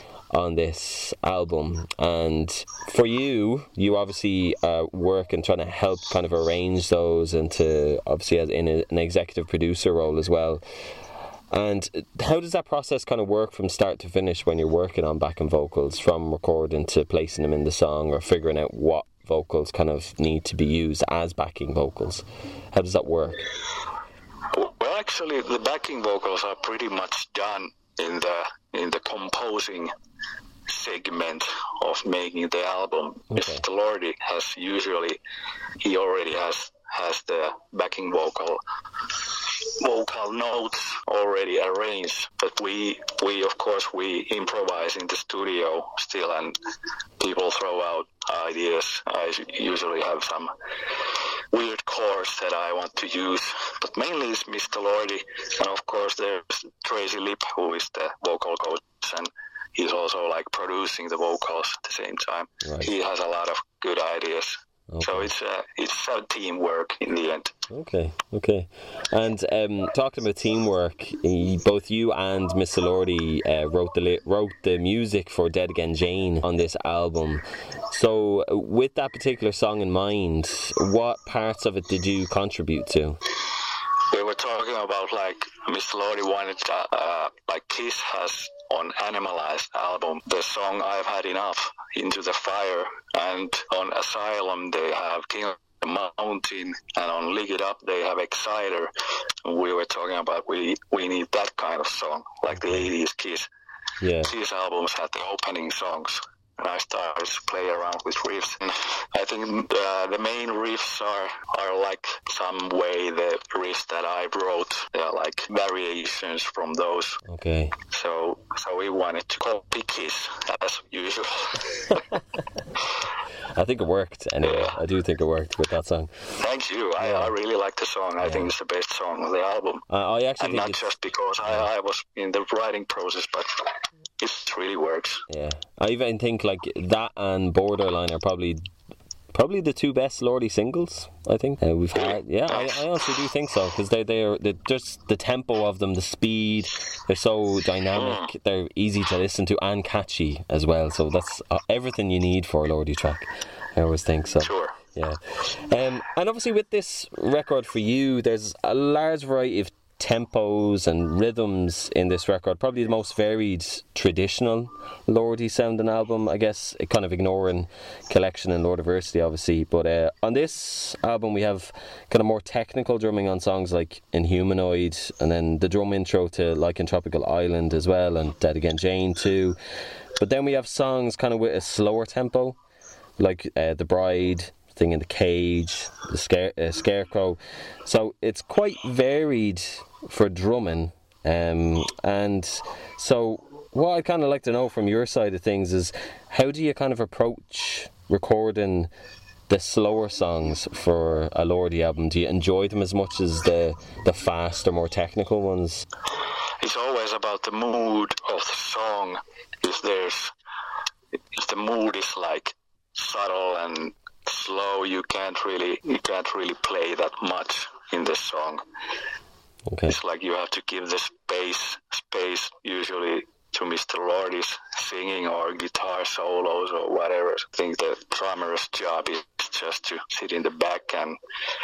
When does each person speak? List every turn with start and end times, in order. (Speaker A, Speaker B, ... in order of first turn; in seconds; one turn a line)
Speaker A: 0.3-10.6
Speaker A: 11.5-23.5
Speaker B: 24.5-29.9
Speaker B: 30.7-35.2
Speaker A: 33.3-33.6
Speaker B: 35.8-38.6
Speaker B: 39.4-46.6
Speaker B: 47.2-50.5
Speaker B: 51.5-67.5
Speaker A: 62.6-62.9
Speaker A: 64.9-65.3
Speaker A: 67.7-83.2
Speaker B: 84.1-98.9
Speaker B: 99.4-103.5
Speaker A: 102.5-102.9
Speaker A: 104.0-104.3
Speaker B: 104.2-117.2
Speaker A: 117.2-117.8
Speaker B: 117.9-122.0
Speaker A: 123.5-126.3
Speaker B: 124.4-124.8
Speaker B: 126.4-129.8
Speaker A: 127.0-127.3
Speaker A: 128.2-128.5
Speaker A: 129.9-130.9
Speaker B: 130.4-133.5
Speaker B: 134.2-135.2
Speaker A: 135.3-138.7
Speaker A: 139.3-179.6
Speaker B: 141.9-142.8
Speaker B: 147.9-148.3
Speaker B: 154.4-154.8
Speaker A: 180.2-182.6
Speaker A: 183.2-198.9
Speaker A: 199.5-205.9
Speaker B: 206.6-210.3
Speaker B: 211.3-218.6
Speaker A: 219.7-220.0
Speaker B: 219.9-231.2